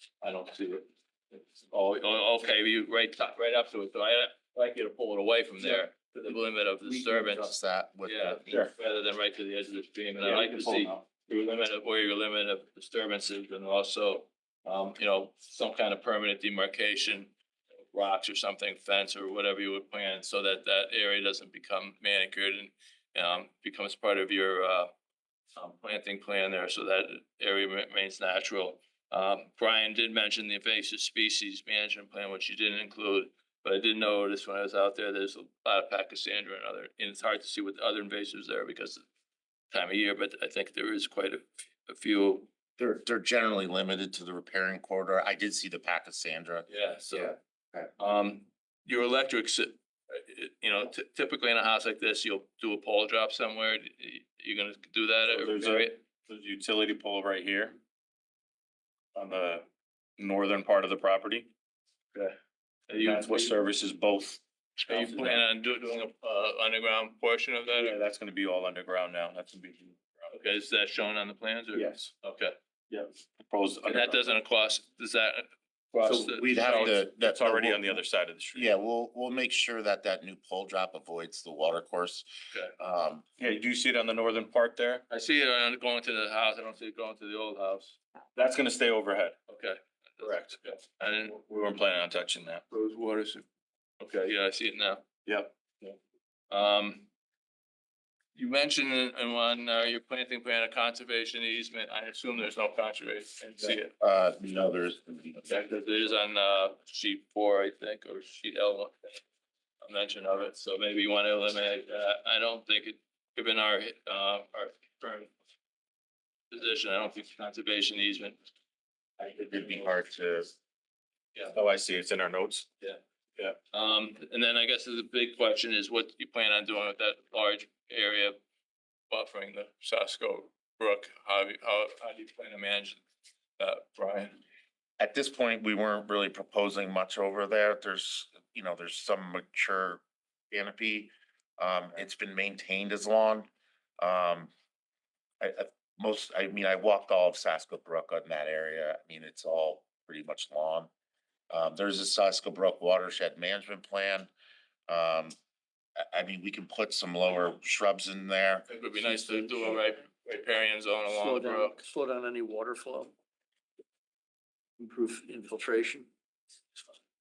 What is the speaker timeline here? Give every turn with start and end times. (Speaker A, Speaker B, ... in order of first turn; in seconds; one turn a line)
Speaker A: 0.2-7.5
Speaker B: 6.8-8.7
Speaker A: 8.0-17.3
Speaker C: 8.5-8.7
Speaker C: 10.2-11.0
Speaker A: 17.9-24.9
Speaker A: 25.6-39.0
Speaker A: 39.7-42.5
Speaker B: 42.8-47.9
Speaker A: 46.7-47.3
Speaker A: 48.0-56.0
Speaker C: 55.3-57.8
Speaker C: 59.1-59.6
Speaker C: 60.2-61.5
Speaker A: 62.9-63.5
Speaker C: 63.0-65.4
Speaker A: 64.9-68.0
Speaker C: 67.7-70.3
Speaker A: 70.3-72.5
Speaker C: 71.7-72.1
Speaker C: 72.9-74.3
Speaker A: 73.8-76.9
Speaker B: 76.0-78.0
Speaker C: 76.6-78.7
Speaker B: 78.5-83.2
Speaker C: 83.4-85.0
Speaker A: 85.1-88.0
Speaker C: 88.3-89.3
Speaker A: 89.5-91.4
Speaker C: 90.2-90.6
Speaker C: 91.3-92.6
Speaker A: 92.7-93.4
Speaker A: 94.0-95.0
Speaker C: 95.2-95.9
Speaker A: 96.5-97.1
Speaker A: 98.3-103.9
Speaker B: 103.6-105.7
Speaker A: 105.5-109.2
Speaker A: 109.8-115.3
Speaker A: 116.5-118.4
Speaker B: 119.2-120.5
Speaker C: 121.5-122.7
Speaker A: 123.7-128.4
Speaker A: 129.1-133.0
Speaker A: 133.6-134.4
Speaker B: 135.0-143.5
Speaker B: 144.0-144.5
Speaker B: 145.4-150.9
Speaker B: 151.5-154.3
Speaker B: 154.9-155.3
Speaker B: 156.0-158.7
Speaker A: 158.7-161.9
Speaker D: 158.9-159.8
Speaker D: 161.1-163.1
Speaker D: 164.8-166.1